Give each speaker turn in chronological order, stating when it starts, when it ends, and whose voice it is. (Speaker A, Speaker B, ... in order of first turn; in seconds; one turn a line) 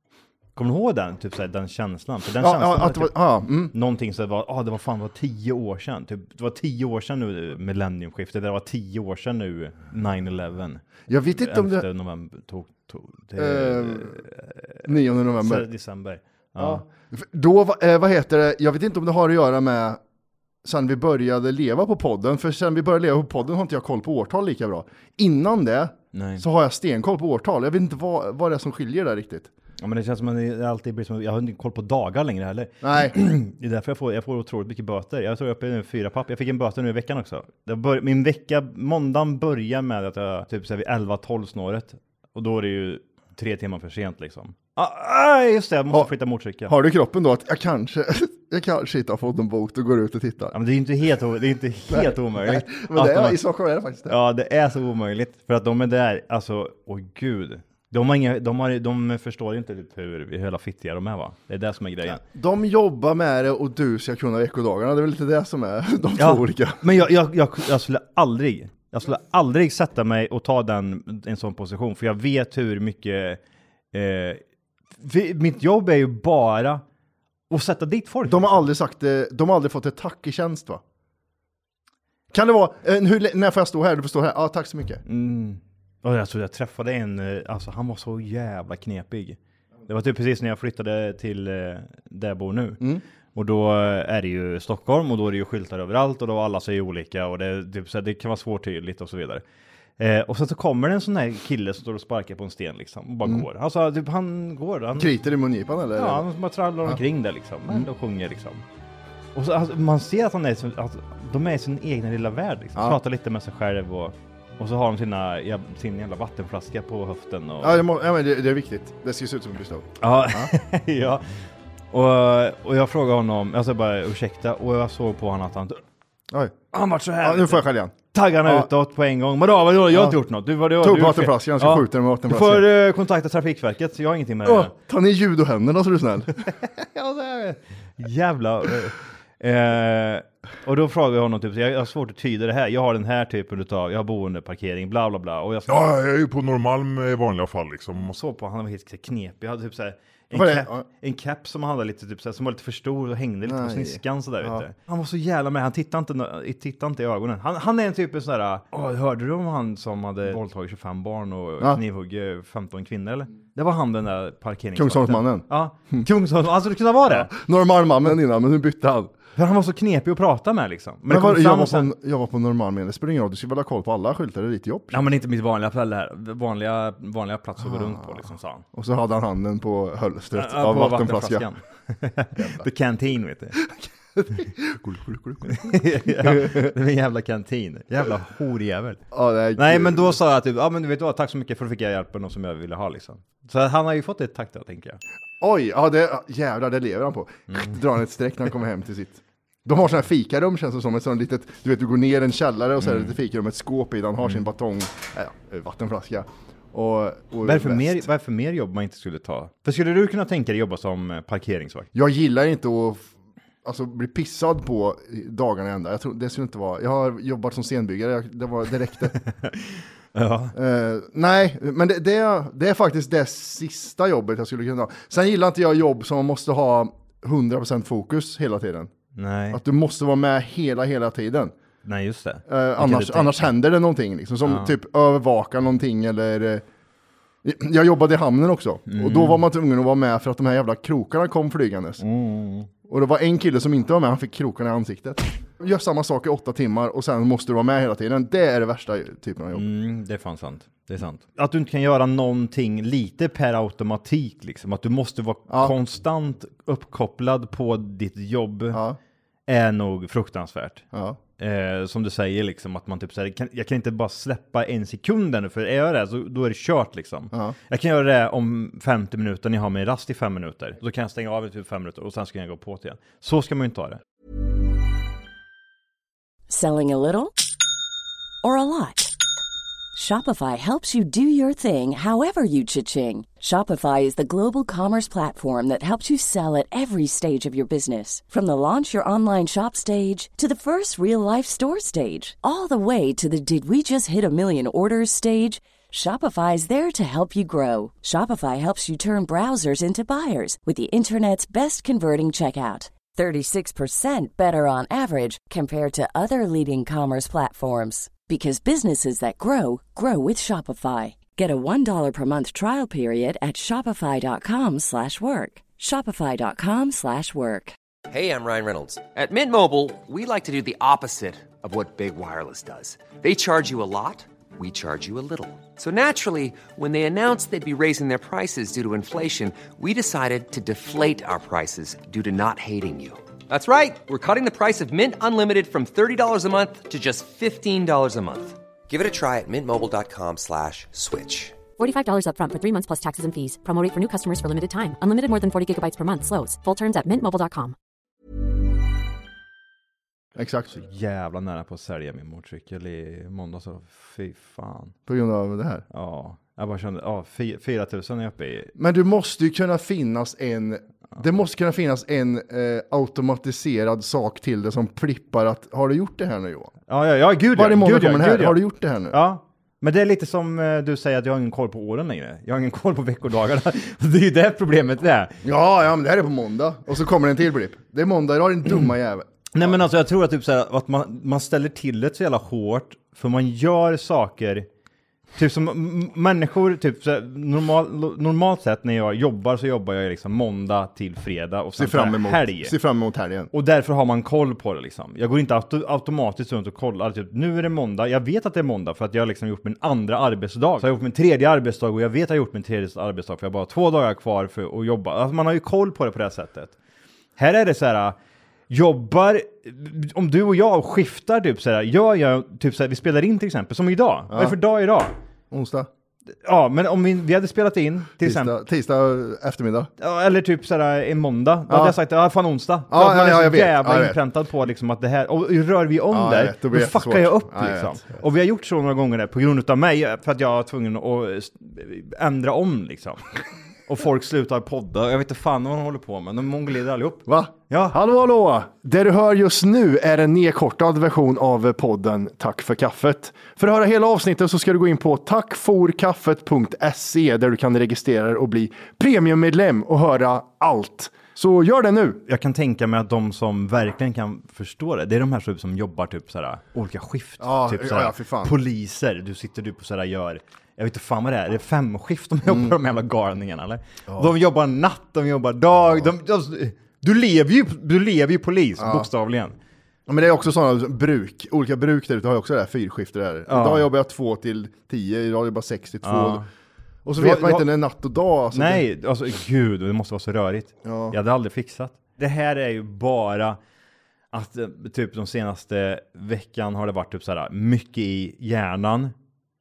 Speaker A: 0.5-3.2
Speaker B: 2.4-3.7
Speaker A: 3.7-14.8
Speaker B: 11.1-11.8
Speaker B: 13.4-14.2
Speaker B: 14.8-15.7
Speaker A: 15.4-16.8
Speaker B: 16.6-20.0
Speaker B: 20.6-29.5
Speaker A: 26.1-26.4
Speaker A: 29.8-46.7
Speaker B: 32.8-33.1
Speaker B: 46.7-50.5
Speaker A: 50.5-53.4
Speaker B: 51.9-54.1
Speaker A: 54.0-62.2
Speaker B: 62.2-66.8
Speaker A: 66.2-73.4
Speaker A: 73.9-74.4
Speaker A: 75.0-76.8
Speaker A: 77.5-78.7
Speaker B: 78.2-80.8
Speaker B: 82.3-85.0
Speaker A: 85.0-92.8
Speaker A: 93.3-99.4
Speaker A: 100.0-105.1
Speaker B: 105.0-106.2
Speaker A: 106.0-108.6
Speaker A: 109.3-117.8
Speaker B: 117.6-120.5
Speaker A: 120.0-121.2
Speaker A: 121.9-125.8
Speaker B: 126.3-126.6
Speaker A: 126.7-134.7
Speaker B: 127.2-128.7
Speaker B: 129.9-130.2
Speaker B: 130.8-132.7
Speaker B: 134.4-136.4
Speaker A: 136.5-145.8
Speaker C: 145.7-148.1
Speaker A: 148.0-167.3
Speaker B: 150.3-150.8
Speaker B: 153.4-154.6
Speaker B: 164.7-166.1
Speaker B: 167.1-169.1
Speaker A: 169.3-171.9
Speaker B: 171.1-175.0
Speaker A: 174.9-178.6
Speaker B: 177.6-178.2
Speaker B: 178.7-181.5
Speaker A: 180.3-183.6
Speaker B: 182.3-182.7
Speaker B: 183.7-186.7
Speaker A: 185.4-189.0
Speaker B: 189.1-190.2
Speaker A: 189.6-195.0
Speaker B: 195.4-208.1
Speaker A: 197.5-197.8
Speaker A: 202.8-203.2
Speaker A: 207.4-211.9
Speaker B: 211.9-213.1
Speaker B: 213.6-219.2
Speaker A: 219.3-220.5
Speaker B: 220.5-228.9
Speaker A: 229.2-229.6
Speaker B: 229.5-231.5
Speaker A: 231.8-233.3
Speaker B: 232.5-236.6
Speaker A: 234.4-234.7
Speaker B: 237.4-242.0
Speaker A: 238.9-239.4
Speaker A: 242.0-242.7
Speaker B: 242.9-249.7
Speaker A: 249.5-258.8
Speaker B: 255.5-255.7
Speaker A: 259.5-260.8
Speaker B: 260.9-261.2
Speaker A: 261.4-274.0
Speaker D: 276.5-277.4
Speaker D: 278.4-279.1
Speaker D: 279.9-317.8
Speaker E: 318.1-341.6
Speaker F: 341.8-347.7
Speaker B: 350.4-350.7
Speaker A: 350.7-354.9
Speaker B: 355.1-355.8
Speaker A: 355.9-358.7
Speaker B: 358.8-366.7
Speaker A: 366.9-375.4
Speaker B: 367.5-369.2
Speaker B: 375.4-379.8
Speaker A: 379.5-384.7
Speaker A: 385.4-392.7
Speaker B: 391.8-393.5
Speaker A: 393.5-406.7
Speaker A: 407.4-408.1
Speaker A: 408.7-415.1
Speaker B: 414.3-414.6
Speaker B: 415.5-415.9
Speaker A: 416.3-418.5
Speaker B: 418.2-419.9
Speaker A: 420.0-433.2
Speaker B: 421.7-421.9
Speaker B: 422.9-424.2
Speaker B: 426.1-428.2
Speaker A: 433.9-437.9
Speaker B: 437.3-452.2
Speaker A: 452.2-469.6
Speaker B: 457.4-458.5
Speaker B: 462.4-462.7
Speaker B: 464.1-464.3
Speaker B: 468.8-469.1
Speaker B: 470.1-476.4
Speaker A: 473.5-473.9
Speaker A: 476.0-476.4
Speaker B: 477.0-478.9
Speaker A: 477.1-477.7
Speaker A: 478.5-483.6
Speaker B: 480.8-481.1
Speaker A: 484.3-489.1